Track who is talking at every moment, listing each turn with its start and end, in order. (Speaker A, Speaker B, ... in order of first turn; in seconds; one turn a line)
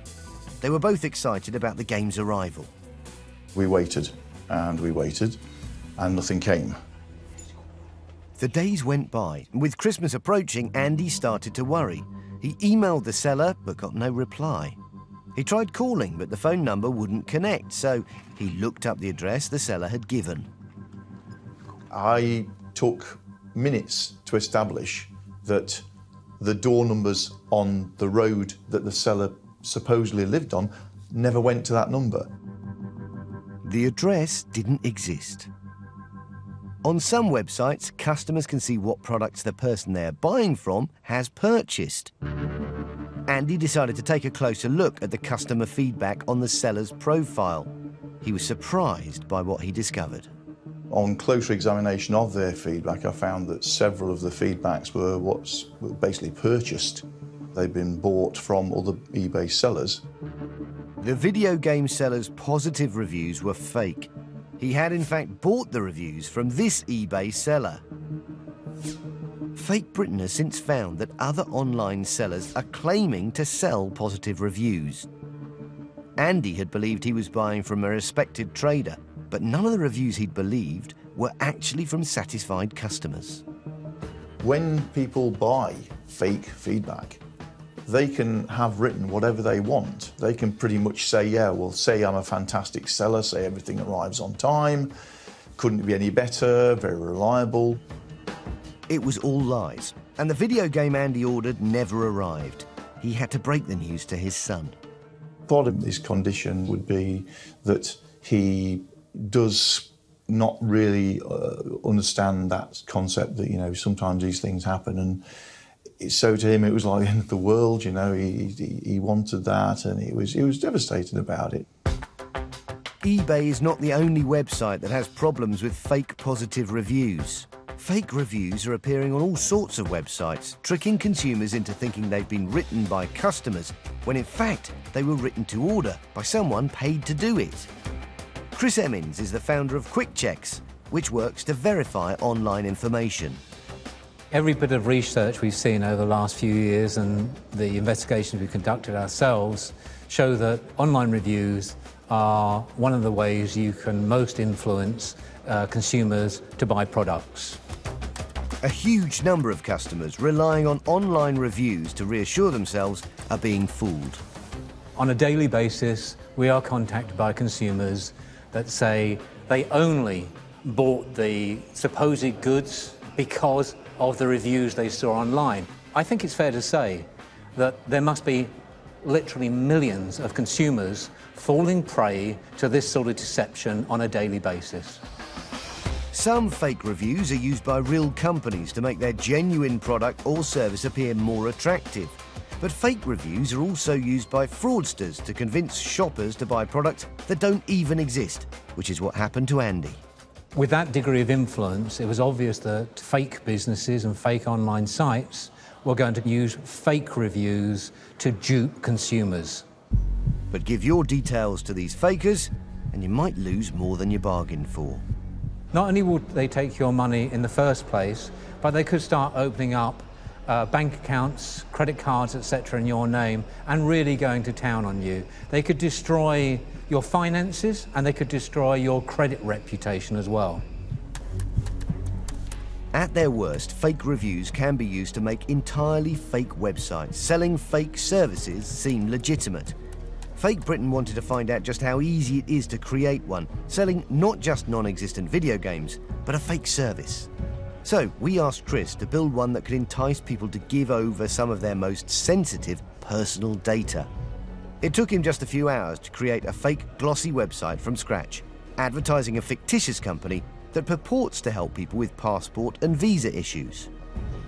Speaker A: 0.6-2.7
Speaker B: 3.5-5.4
Speaker B: 6.0-6.8
Speaker A: 8.4-14.8
Speaker A: 15.3-20.5
Speaker B: 21.9-25.8
Speaker B: 26.4-32.3
Speaker A: 33.6-35.5
Speaker A: 36.8-42.1
Speaker A: 43.3-50.3
Speaker B: 50.9-60.0
Speaker A: 61.0-67.8
Speaker A: 69.5-75.1
Speaker A: 76.2-83.4
Speaker B: 84.4-87.2
Speaker B: 87.8-94.9
Speaker B: 95.6-97.8
Speaker A: 98.9-104.8
Speaker B: 105.5-115.2
Speaker B: 116.0-121.7
Speaker A: 123.0-137.7
Speaker A: 138.5-143.4
Speaker C: 144.3-157.6
Speaker A: 158.6-164.2
Speaker C: 164.9-185.0
Speaker A: 186.1-200.0
Speaker C: 200.5-209.6
Speaker A: 210.5-215.0
Speaker C: 215.7-230.6
Speaker A: 232.9-239.7
Speaker A: 240.3-247.3
Speaker A: 247.8-254.1
Speaker A: 254.8-263.9